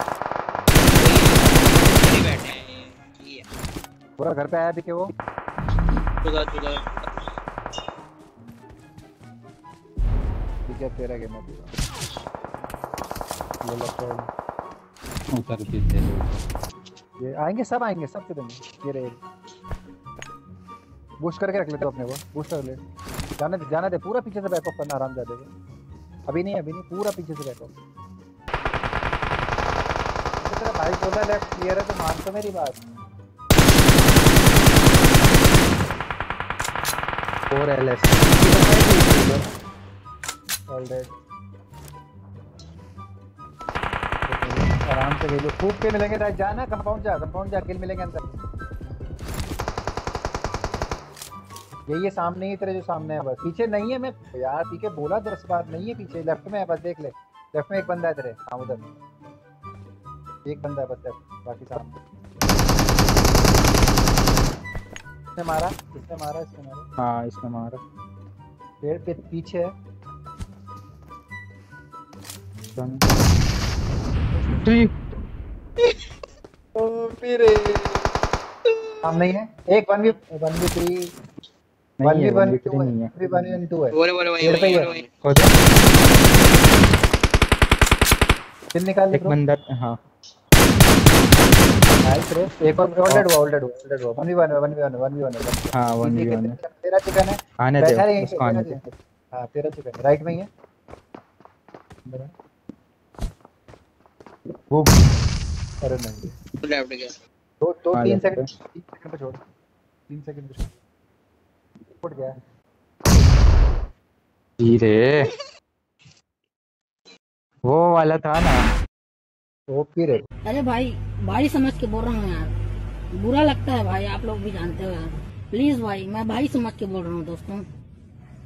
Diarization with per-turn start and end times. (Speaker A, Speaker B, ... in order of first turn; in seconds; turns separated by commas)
Speaker A: 0.9-3.4, Speaker B: 4.2-5.1, Speaker A: 6.2-6.8, Speaker B: 10.7-11.7, Speaker B: 13.6-14.3, Speaker C: 15.3-16.4, Speaker B: 17.2-19.2, Speaker B: 21.2-22.8, Speaker B: 23.4-25.5, Speaker B: 26.3-27.7, Speaker B: 30.4-32.8, Speaker C: 37.5-38.4, Speaker B: 38.3-39.4, Speaker B: 40.7-41.1, Speaker B: 44.3-48.2, Speaker B: 51.9-58.9, Speaker B: 60.5-62.0, Speaker B: 65.4-66.9, Speaker C: 67.0-67.8, Speaker B: 68.8-69.7, Speaker C: 72.8-73.0, Speaker C: 74.6-74.9, Speaker A: 76.8-78.0, Speaker B: 79.0-81.1, Speaker C: 82.0-83.1, Speaker B: 82.0-84.9, Speaker A: 83.9-85.1, Speaker C: 85.2-85.5, Speaker B: 88.7-89.3, Speaker C: 89.1-90.0, Speaker B: 92.0-100.5, Speaker C: 95.7-96.5, Speaker C: 97.6-98.8, Speaker B: 102.0-102.3, Speaker B: 105.8-106.3, Speaker A: 106.6-107.1, Speaker B: 107.6-109.4, Speaker C: 107.9-108.4, Speaker B: 110.1-110.7, Speaker B: 112.0-112.3, Speaker C: 114.6-115.3, Speaker C: 117.7-118.6, Speaker B: 119.7-120.2, Speaker D: 120.4-122.5, Speaker D: 123.1-127.7